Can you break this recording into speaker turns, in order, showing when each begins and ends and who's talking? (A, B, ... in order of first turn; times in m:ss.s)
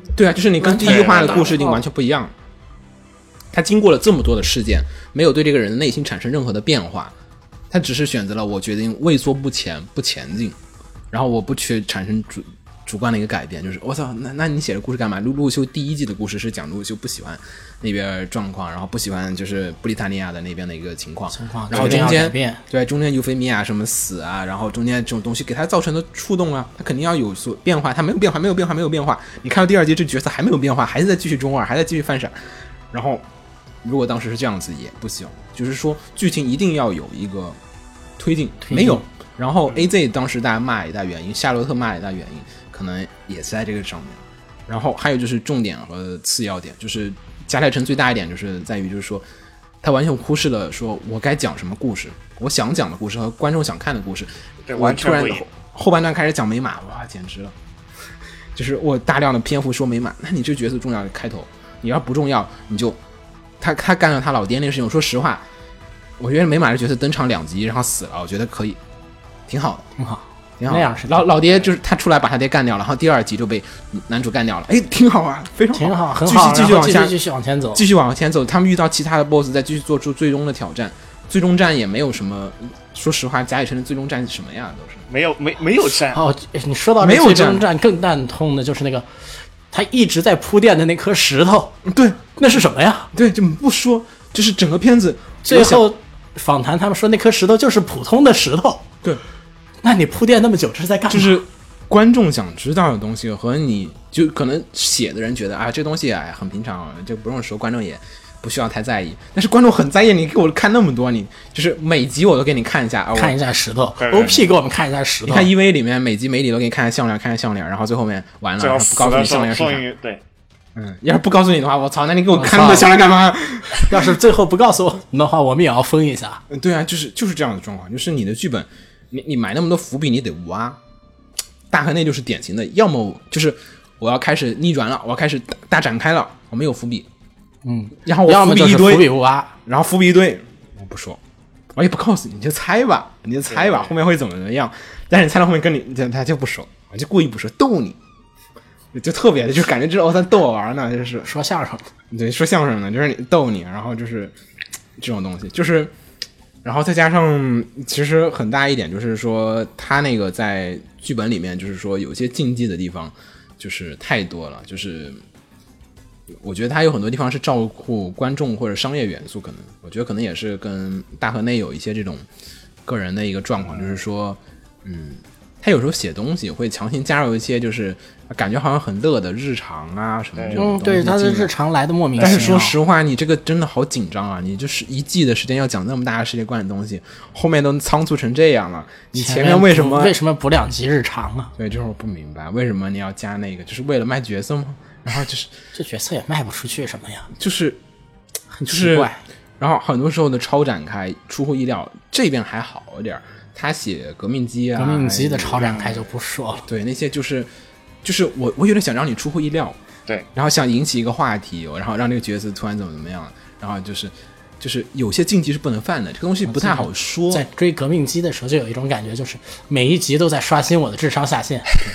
0:00.1-0:02.3 A
0:00.6-0:01.8 B
0:00.8-0:01.5 C
0:03.5-0:07.1 A
0:07.7-0:10.6 A
0:11.1-0:32.3 A
0:21.3-0:22.6 B
0:21.7-0:22.0 C
0:32.9-0:33.2 A
0:33.8-0:37.6 A
0:38.2-0:49.2 A
0:38.6-0:39.0 B
0:49.8-0:57.5 A
0:54.7-0:55.4 C
0:58.5-1:03.0 A
1:03.6-1:05.4 A
1:06.2-1:08.8 A
1:09.5-1:09.9 A
1:10.0-1:11.4 B
1:10.6-1:17.2 A
1:15.7-1:17.8 B
1:17.7-1:25.0 A
1:25.1-1:26.2 C
1:26.1-1:29.0 B
1:27.0-1:27.6 A
1:29.7-1:31.8 B
1:31.8-1:32.3 A
1:32.4-1:33.1 B
1:33.1-1:35.8 A
1:35.4-1:38.9 B
1:39.8-1:41.4 B
1:41.1-1:53.4 A
1:53.1-1:55.5 B
1:54.0-1:54.5 C
1:55.2-1:59.8 A
1:58.6-2:00.2 C
2:00.7-2:04.1 A
2:02.3-2:02.9 B
2:03.8-2:06.4 B
2:06.5-2:10.8 A
2:11.7-2:17.1 A
2:17.6-2:19.6 B
2:18.0-2:19.1 A
2:19.6-2:21.2 A
2:21.7-2:28.0 A
2:23.5-2:23.9 C
2:28.9-2:31.3 A
2:31.2-2:31.8 B
2:32.1-2:34.3 A
2:35.0-2:35.9 A
2:36.6-2:45.2 A
2:46.4-2:52.2 A
2:52.8-3:01.5 A
2:53.7-2:54.0 C
3:00.4-3:00.6 C
3:00.6-3:02.8 B
3:02.2-3:02.6 C
3:02.2-3:10.2 A
3:09.1-3:11.5 B
3:11.6-3:15.5 A
3:15.7-3:17.3 B
3:17.4-3:17.8 A
3:18.5-3:19.2 B
3:18.7-3:25.8 A
3:24.8-3:26.6 B
3:25.6-3:26.0 C
3:26.6-3:27.5 A
3:28.0-3:29.8 A
3:30.3-3:37.4 A
3:36.4-3:41.7 B